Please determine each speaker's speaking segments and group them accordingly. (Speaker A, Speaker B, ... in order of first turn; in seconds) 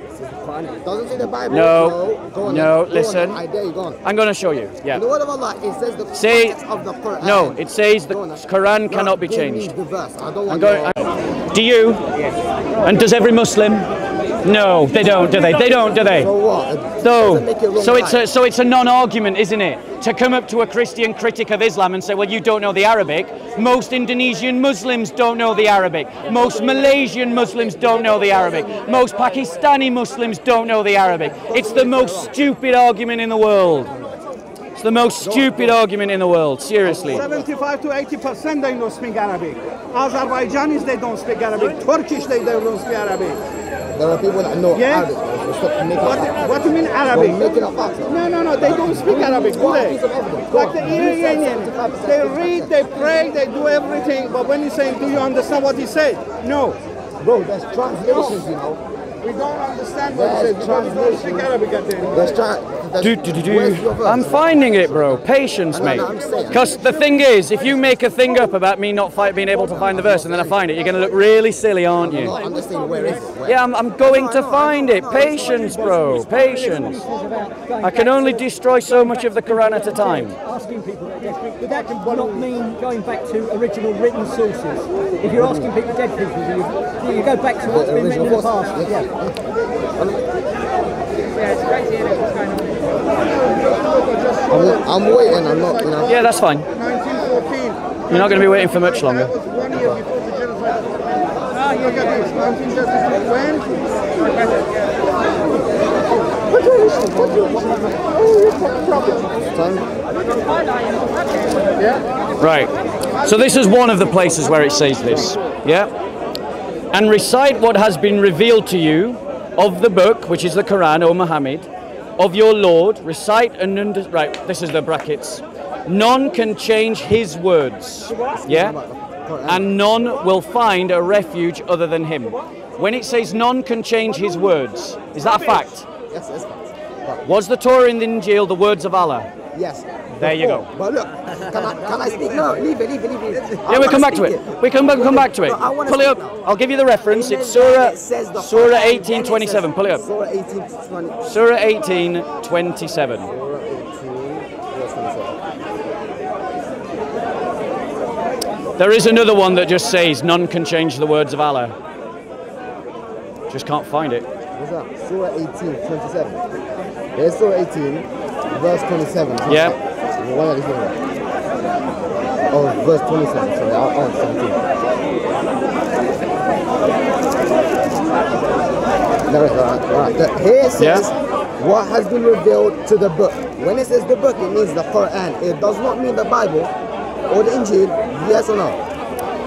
Speaker A: 0.1-4.0, 4.9-10.9, 16.0-18.2, 26.2-29.0, 31.4-32.4, 33.9-34.2, 35.2-35.8, 36.8-37.5, 43.9-53.0, 57.2-58.8, 60.1-61.5, 62.1-66.8, 69.6-70.6, 72.0-76.3, 85.3-85.7, 87.7-90.2, 94.5-96.2, 109.5-109.8, 128.2-129.8, 136.1-137.2, 139.5-146.4, 147.1-151.2, 153.2-155.4, 164.6-166.4, 167.1-171.0, 172.5-174.6, 179.3-186.7, 187.3-188.8
Speaker B: 1.5-3.4, 4.0-5.0, 6.1-6.6, 7.2-9.7, 10.5-12.0, 12.8-13.9, 14.4-16.3, 17.0-33.9, 34.8-37.2, 63.0-72.4, 73.5-77.0, 77.8-80.4, 96.1-96.7, 98.1-99.3, 112.4-115.9, 116.9-128.8, 129.5-135.9, 137.2-139.3, 140.2-140.7, 143.7-150.0, 151.2-153.3, 158.8-161.8, 163.5-164.3, 169.5-169.8, 180.8-181.1
Speaker C: 36.9-43.4, 44.7-45.1, 46.0-50.0, 50.5-56.8, 59.2-62.4, 81.6-82.4, 93.8-95.0, 95.5-96.1, 96.7-100.9, 101.5-103.7, 106.5-109.4
Speaker D: 76.3-89.1, 91.9-92.2